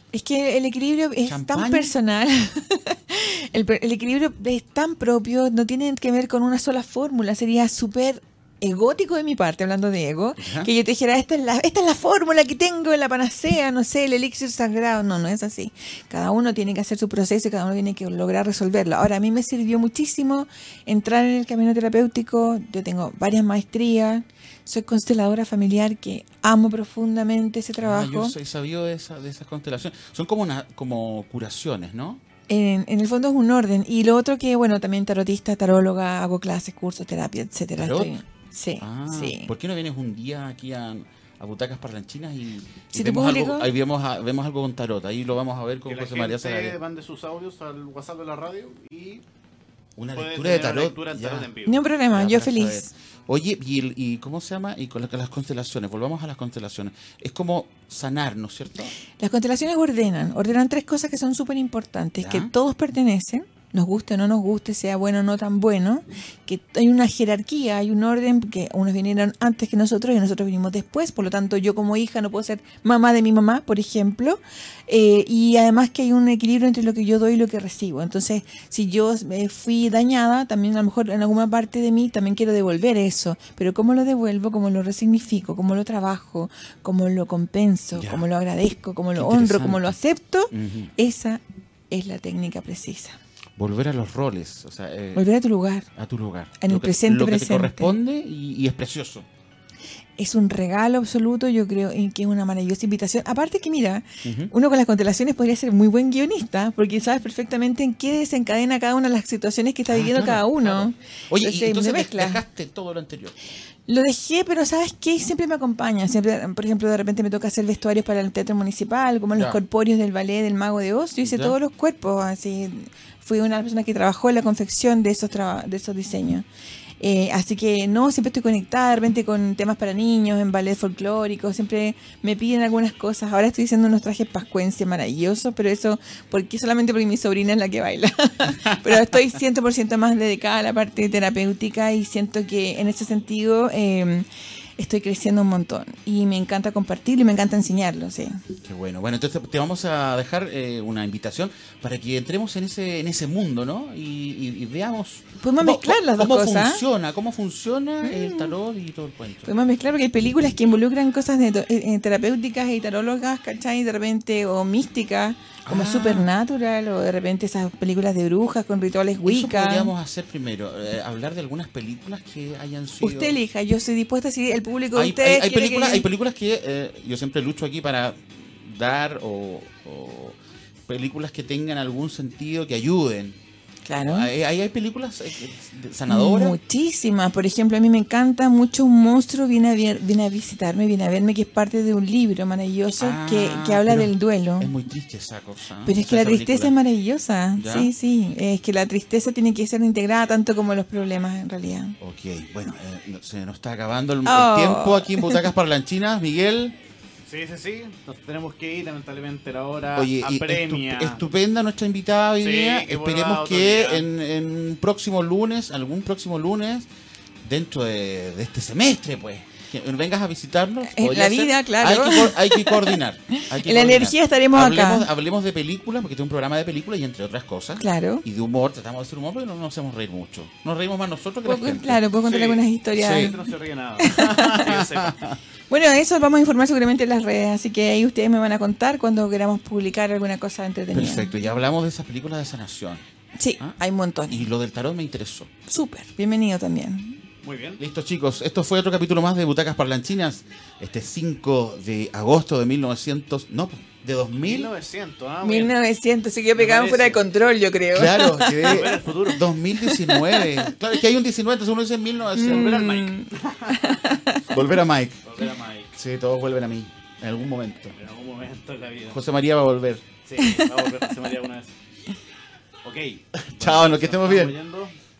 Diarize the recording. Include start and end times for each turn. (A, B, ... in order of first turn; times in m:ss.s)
0:00.1-0:28.4 A
0:01.3-0:01.9 B
0:10.4-0:10.7 B
0:27.8-0:32.2 B
0:32.5-0:39.5 A
0:37.8-0:38.1 B
0:38.8-0:46.8 B
0:42.9-0:43.7 A
0:45.9-0:49.2 C
0:50.0-0:51.5 B
0:50.1-0:51.8 C
0:51.7-0:52.9 A
0:52.1-0:58.9 B
0:59.2-1:33.2 A
1:02.2-1:02.5 B
1:28.0-1:28.3 B
1:29.2-1:30.0 B
1:30.5-1:30.9 B
1:33.6-1:35.2 B
1:35.2-1:35.9 A
1:36.0-1:39.3 B
1:36.6-1:37.9 A
1:40.2-1:52.4 A
1:44.2-1:44.5 B
1:49.9-1:53.3 B
1:53.9-2:06.4 A
2:01.2-2:01.6 B
2:07.0-2:24.3 A
2:18.4-2:18.8 B
2:24.8-2:28.4 A
2:28.6-2:39.5 B
2:35.4-2:36.8 A
2:38.0-2:38.5 A
2:39.4-2:49.9 A
2:45.6-2:46.3 B
2:49.2-2:53.4 B
2:53.0-2:56.1 A
2:54.9-3:03.4 B
3:03.9-3:04.3 A
3:04.0-3:06.6 B
3:06.1-3:14.7 A
3:13.0-3:16.8 B
3:15.8-3:22.0 A
3:17.6-3:17.9 B
3:22.0-3:26.8 B
3:24.2-3:25.5 A
3:27.3-3:31.2 C
3:30.0-3:36.9 B
3:32.4-3:34.0 C
3:37.4-3:52.0 B
3:40.8-3:45.1 A
3:47.8-3:48.2 A
3:51.4-3:53.4 A
3:52.2-3:55.2 C
3:53.0-3:53.4 B
3:54.0-3:54.8 A
3:54.2-3:55.4 B
3:55.7-4:01.3 A
4:00.9-4:03.0 B
4:03.4-4:04.5 A
4:04.3-4:05.5 B
4:05.7-4:07.2 A
4:07.4-4:07.8 C
4:07.8-4:14.7 B
4:14.4-4:15.8 C
4:15.4-4:18.9 A
4:16.5-4:17.3 C
4:17.9-4:22.9 B
4:18.6-4:19.4 C
4:19.7-4:20.7 A
4:22.4-4:24.4 A
4:22.4-4:24.0 C
4:24.4-4:25.2 B
4:25.2-4:25.9 C
4:25.9-4:28.0 B
4:27.9-4:29.2 C
4:29.1-4:30.1 B
4:30.2-4:31.7 C
4:30.4-4:31.3 A
4:32.8-4:34.9 C
4:33.4-4:34.6 B